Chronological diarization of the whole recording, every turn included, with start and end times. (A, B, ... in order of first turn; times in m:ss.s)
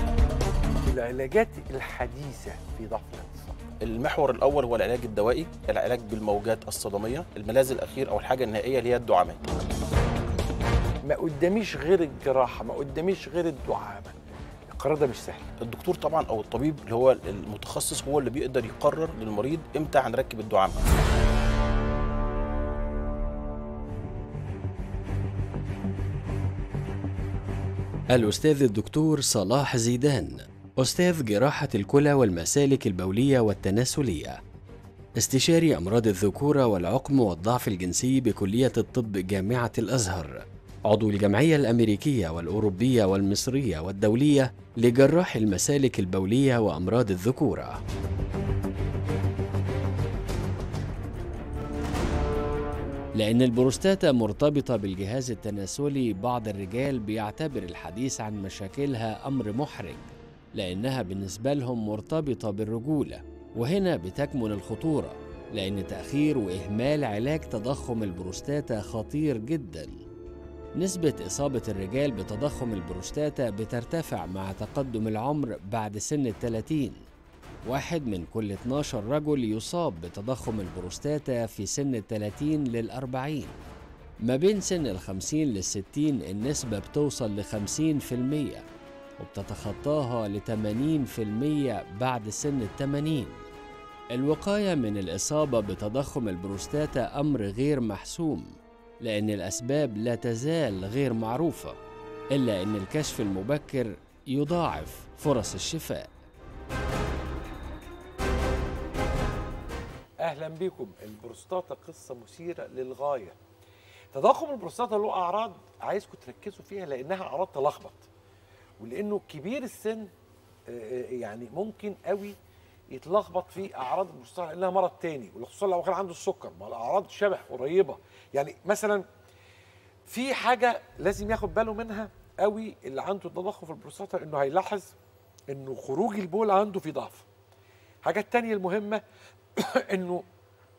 0:00.8-0:03.6 A
0:03.8-0:09.5 B
0:11.0-0:14.2 A
0:14.7-0:15.5 A
0:15.6-0:20.8 B
0:28.1-0:34.4 C
0:35.2-0:47.8 C
0:53.2-1:09.9 C
1:10.8-1:17.0 C
1:17.6-1:23.6 C
1:24.2-1:28.6 C
1:29.2-1:33.4 C
1:34.1-1:38.5 C
1:39.0-1:41.8 C
1:42.3-1:46.1 C
1:50.2-1:53.4 A
1:54.1-1:58.1 A
1:58.8-2:00.1 A
2:00.7-2:02.4 A
2:02.9-2:09.0 A
2:10.1-2:14.9 A
2:15.5-2:17.3 A
2:18.0-2:19.0 A
2:19.6-2:20.2 A